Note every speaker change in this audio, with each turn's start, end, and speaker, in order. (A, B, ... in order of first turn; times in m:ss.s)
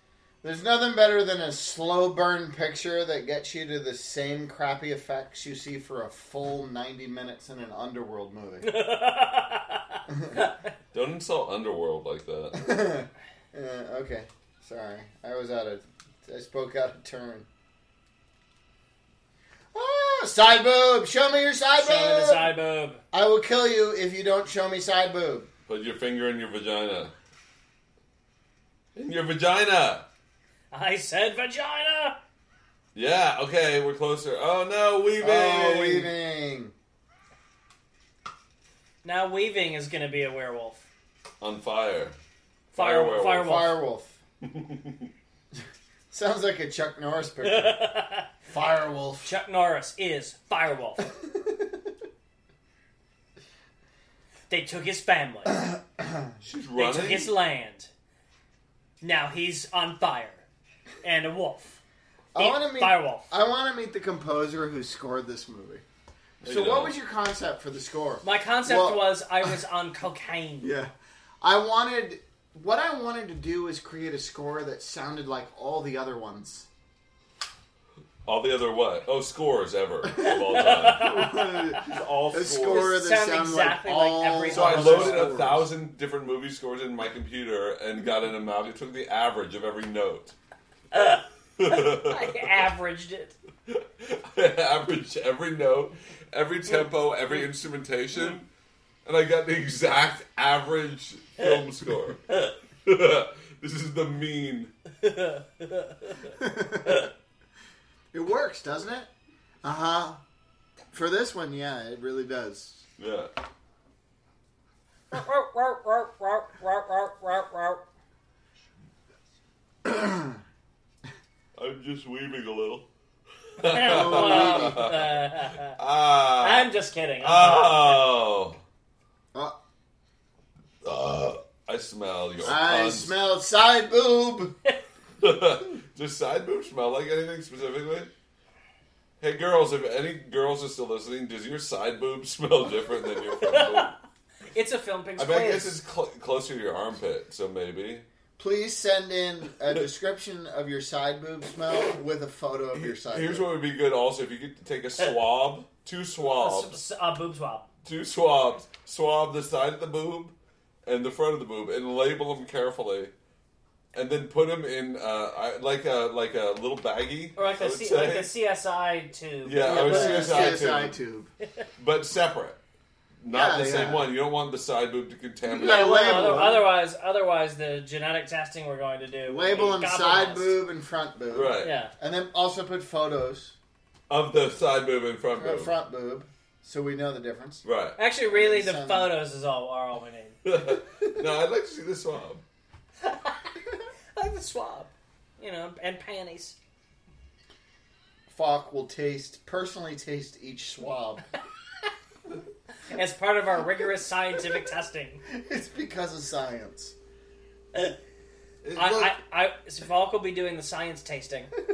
0:00.4-0:08.7 A
0:08.6-0:10.6 B
0:10.1-0:10.4 A
0:10.9-0:12.7 C
0:12.5-0:17.5 A
0:19.7-0:22.5 A
0:21.8-0:23.0 B
0:23.1-0:25.5 A
0:25.7-0:27.1 C
0:29.0-0:30.1 C
0:30.7-0:32.2 B
0:32.9-0:36.1 C
0:35.2-0:36.7 A
0:39.0-0:40.9 B
0:41.4-0:42.2 C
0:42.7-0:43.5 C
0:42.7-0:43.8 B
0:43.4-0:44.2 A
0:44.4-0:45.1 C
0:46.1-0:47.9 A
0:47.4-0:48.3 B
0:48.4-0:49.3 A
0:49.2-0:51.1 B
0:51.2-0:51.8 A
0:54.5-0:55.6 B
0:55.6-0:56.3 A
0:56.4-0:57.3 C
0:56.8-0:57.9 B
0:59.0-1:00.4 B
1:01.0-1:01.8 B
1:02.3-1:05.8 A
1:02.4-1:03.3 B
1:06.4-1:09.5 A
1:06.4-1:06.9 C
1:08.2-1:10.7 B
1:10.6-1:16.7 A
1:18.2-1:23.0 C
1:20.2-1:21.8 B
1:20.9-1:25.7 A
1:22.6-1:25.4 B
1:24.5-1:30.4 C
1:30.9-1:33.4 B
1:31.6-1:32.5 C
1:33.7-1:38.5 C
1:39.0-1:42.3 C
1:42.8-1:44.7 C
1:45.0-1:47.1 B
1:46.4-1:47.1 A
1:48.1-1:49.1 A
1:49.6-1:50.2 A
1:50.9-1:52.9 A
1:53.0-1:53.3 C
1:55.1-1:57.8 B
1:59.8-2:00.4 A
2:01.6-2:02.9 C
2:03.6-2:08.6 C
2:03.6-2:08.0 B
2:03.8-2:04.9 A
2:10.8-2:13.2 C
2:12.4-2:14.6 A
2:15.2-2:18.1 C
2:19.2-2:24.0 C
2:23.4-2:23.9 B
2:24.5-2:25.8 B
2:25.2-2:28.0 C
2:28.4-2:33.5 A
2:32.7-2:36.8 C
2:36.3-2:37.7 B
2:37.8-2:40.3 C
2:40.8-2:43.1 C
2:43.9-2:48.3 C
2:47.4-2:50.6 B
2:49.4-2:51.0 C
2:49.6-2:51.3 A
2:51.8-2:52.6 C
2:53.2-2:56.5 C
2:53.3-2:54.1 A
2:55.5-2:56.7 A
2:55.6-3:00.6 B
2:59.3-3:03.6 A
3:01.3-3:01.8 C
3:01.6-3:01.9 B
3:04.1-3:05.7 C
3:05.4-3:07.6 A
3:07.6-3:08.0 C
3:08.0-3:10.4 B
3:08.3-3:09.1 A
3:10.4-3:12.4 C
3:13.0-3:13.5 B
3:14.2-3:16.6 B
3:18.3-3:21.3 A
3:22.8-3:25.2 B
3:25.3-3:27.0 A
3:28.6-3:29.2 C
3:28.8-3:31.5 B